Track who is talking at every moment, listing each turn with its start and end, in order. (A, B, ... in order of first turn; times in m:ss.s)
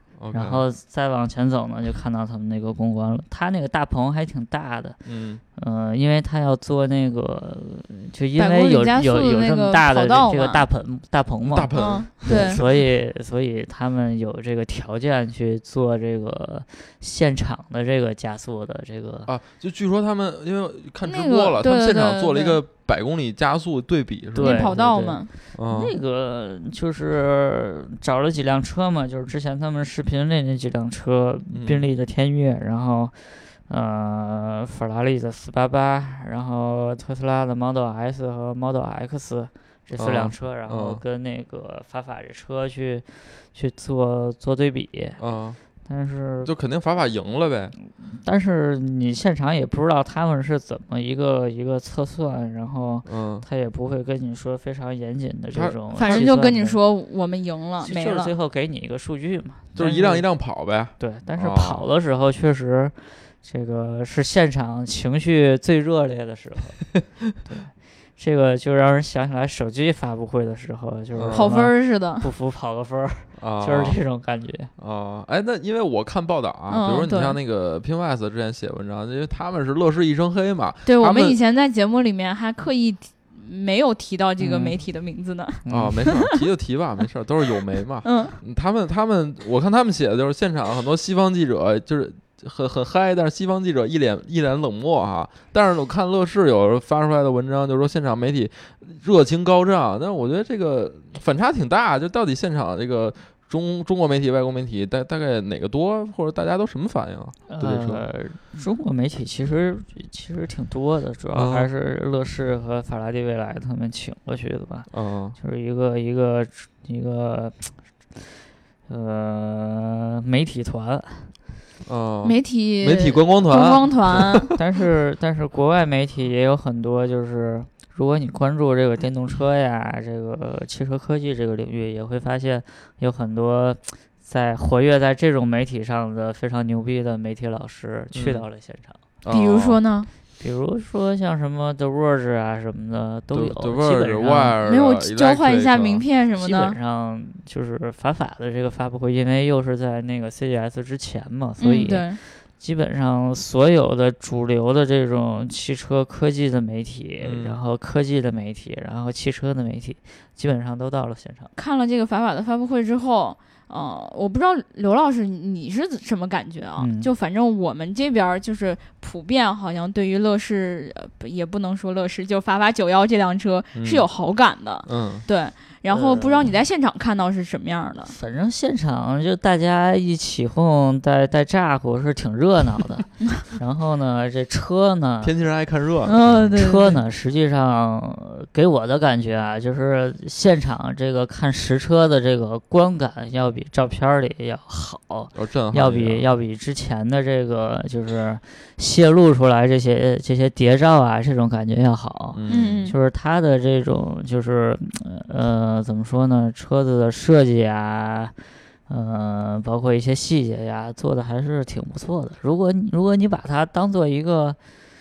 0:00.2-0:00.6 A
0:00.3-0:05.0 B
0:05.0-0:05.4 A
0:05.6-0:19.3 B
0:08.4-0:10.6 C
0:11.4-0:12.8 A
0:11.7-0:12.6 C
0:19.2-0:24.7 A
0:21.0-0:22.6 C
0:24.4-0:25.3 C
0:24.4-0:45.2 B
0:25.5-0:25.9 A
0:31.5-0:31.8 A
0:40.0-0:41.0 A
0:45.2-0:45.6 A
0:45.8-0:46.5 B
0:46.4-0:47.7 A
0:48.0-0:56.8 B
0:53.0-0:53.4 A
0:55.5-0:56.3 A
0:55.9-0:58.3 C
0:57.8-1:00.3 B
0:59.8-1:01.8 A
1:01.0-1:06.9 B
1:07.4-1:14.7 B
1:11.1-1:11.5 A
1:11.3-1:12.3 C
1:13.4-1:14.0 A
1:14.8-1:21.4 A
1:16.7-1:17.4 C
1:20.8-1:26.4 C
1:24.4-1:24.8 B
1:25.6-1:26.0 B
1:25.7-1:48.0 A
1:28.0-1:28.4 C
1:47.5-1:58.2 B
1:51.3-1:51.7 A
1:54.9-1:55.4 A
1:58.9-2:01.3 B
2:01.8-2:04.4 A
2:02.2-2:04.5 C
2:04.5-2:19.0 B
2:18.1-2:18.4 A
2:19.2-2:19.8 A
2:19.3-2:20.1 C
2:20.4-2:24.6 B
2:23.3-2:26.0 A
2:24.6-2:26.8 C
2:26.4-2:41.5 B
2:31.6-2:32.2 C
2:37.2-2:37.6 A
2:41.6-2:58.1 C
2:46.8-2:47.1 B
2:53.8-2:54.1 A
2:54.9-2:55.3 A
2:55.9-2:56.5 B
2:58.1-3:05.3 B
3:05.2-3:06.6 A
3:06.0-3:07.0 C
3:06.6-3:28.4 B
3:15.3-3:16.2 A
3:22.3-3:22.9 A
3:22.5-3:22.9 C
3:28.9-3:34.6 B